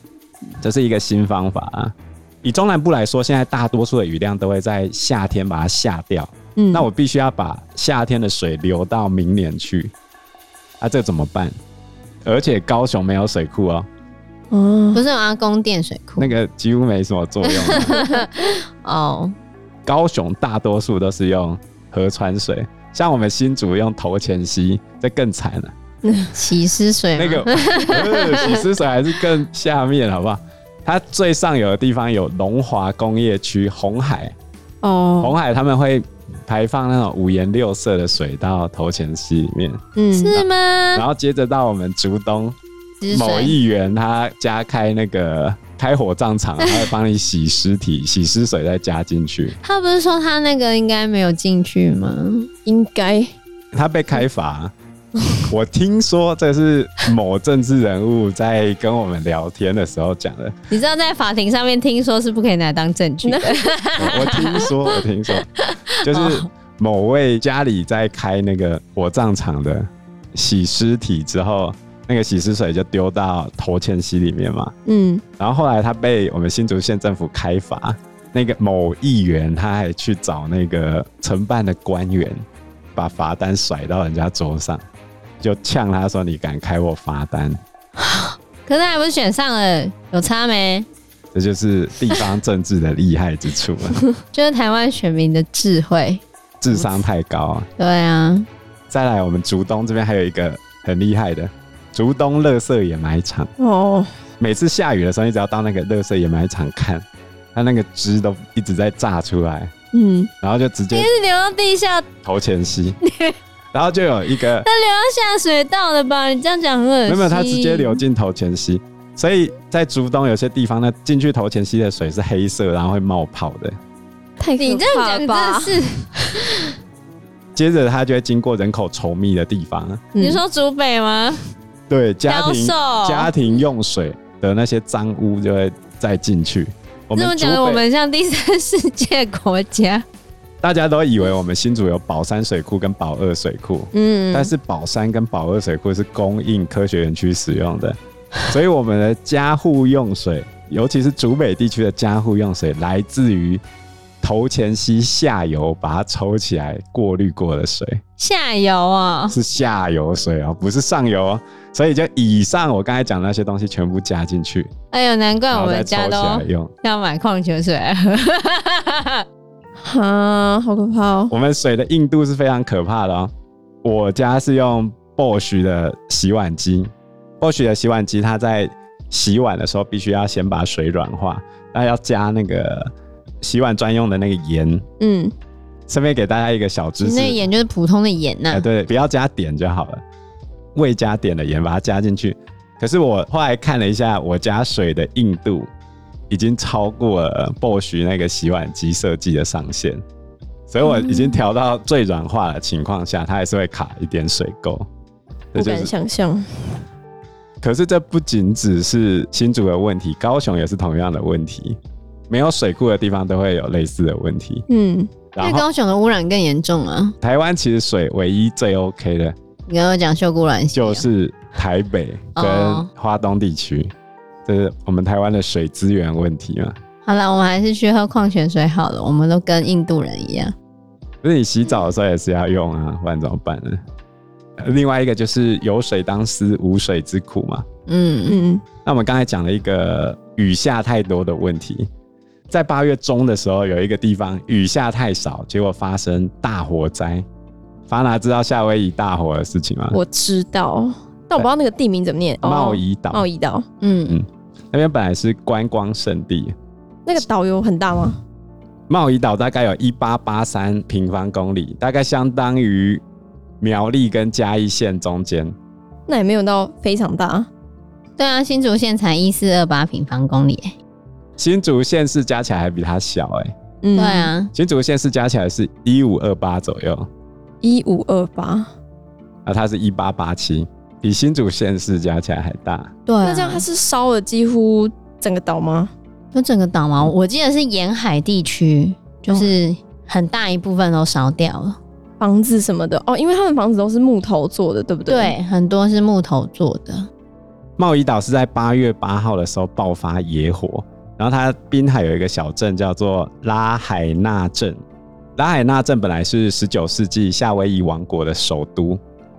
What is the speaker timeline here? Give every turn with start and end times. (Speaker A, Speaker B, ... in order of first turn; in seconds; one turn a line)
Speaker A: 0.6-9.9
Speaker B: 6.5-6.9
Speaker A: 10.8-11.6
Speaker A: 12.2-13.9
Speaker B: 14.5-15.0
Speaker C: 14.9-16.3
Speaker A: 16.2-18.0
Speaker C: 17.4-19.3
Speaker B: 17.9-18.2
Speaker A: 19.9-25.7
Speaker B: 26.0-26.4
Speaker C: 26.3-28.6
Speaker A: 27.1-34.3
Speaker B: 34.8-35.3
Speaker A: 35.2-39.8
Speaker B: 40.0-40.4
Speaker C: 40.1-41.0
Speaker A: 40.3-42.5
Speaker C: 43.0-43.5
Speaker A: 43.1-49.6
Speaker C: 49.6-52.5
Speaker B: 52.6-53.3
Speaker A: 53.7-54.7
Speaker A: 55.5-60.5
Speaker C: 60.7-64.7
Speaker B: 63.2-63.7
Speaker A: 64.0-65.5
Speaker C: 65.5-66.5
Speaker A: 66.0-74.7
Speaker B: 74.8-75.2
Speaker A: 75.4-82.4
Speaker A: 83.0-84.8
Speaker A: 85.4-87.6
Speaker C: 88.0-90.9
Speaker A: 91.3-94.0
Speaker C: 94.3-96.9
Speaker A: 96.6-97.7
Speaker C: 97.8-98.5
Speaker A: 98.9-103.5
Speaker B: 103.6-104.1
Speaker A: 104.4-109.7
Speaker B: 109.9-110.3
Speaker A: 110.4-111.1
Speaker C: 110.9-112.1
Speaker A: 112.2-113.0
Speaker C: 113.0-113.4
Speaker A: 113.7-114.7
Speaker C: 114.6-118.0
Speaker A: 117.1-123.8
Speaker B: 124.4-125.8
Speaker C: 124.6-126.7
Speaker A: 127.5-130.1
Speaker B: 130.1-130.4
Speaker C: 130.2-131.4
Speaker A: 131.9-137.8
Speaker C: 132.3-133.3
Speaker C: 137.1-140.0
Speaker A: 140.6-153.6
Speaker B: 143.9-144.5
Speaker A: 154.2-158.0
Speaker C: 158.2-159.3
Speaker A: 159.3-164.7
Speaker C: 164.9-169.2
Speaker A: 165.5-166.7
Speaker B: 169.8-171.3
Speaker A: 171.3-173.3
Speaker A: 173.8-184.8
Speaker B: 185.0-185.3
Speaker A: 185.9-187.4
Speaker C: 187.0-188.7
Speaker A: 188.5-190.0
Speaker A: 190.7-195.7
Speaker A: 196.3-200.0
Speaker A: 200.7-204.9
Speaker A: 205.5-205.9
Speaker B: 205.5-206.8
Speaker A: 207.6-211.8
Speaker A: 212.3-214.6
Speaker B: 214.7-215.1
Speaker A: 215.3-215.6
Speaker C: 215.4-217.2
Speaker A: 217.2-219.3
Speaker C: 219.7-221.0
Speaker A: 220.7-223.9
Speaker C: 222.3-222.9
Speaker A: 224.4-226.8
Speaker C: 227.1-230.5
Speaker A: 231.2-233.8
Speaker A: 234.6-237.7
Speaker C: 237.9-238.4
Speaker B: 238.3-238.6
Speaker A: 238.8-241.9
Speaker A: 242.5-247.2
Speaker A: 247.9-250.0
Speaker B: 249.9-253.7
Speaker A: 252.4-253.2
Speaker C: 253.8-254.2
Speaker A: 254.1-256.5
Speaker B: 257.1-258.2
Speaker A: 258.9-263.0
Speaker A: 263.6-265.5
Speaker B: 266.1-267.5
Speaker C: 268.2-270.7
Speaker A: 271.4-273.5
Speaker B: 273.8-274.3
Speaker C: 273.9-274.5
Speaker A: 274.5-277.1
Speaker B: 277.6-278.7
Speaker A: 279.4-282.9
Speaker C: 283.1-283.6
Speaker B: 283.2-285.9
Speaker C: 286.3-291.8
Speaker B: 292.2-295.3
Speaker C: 295.1-297.1
Speaker A: 297.8-304.8
Speaker A: 305.4-309.0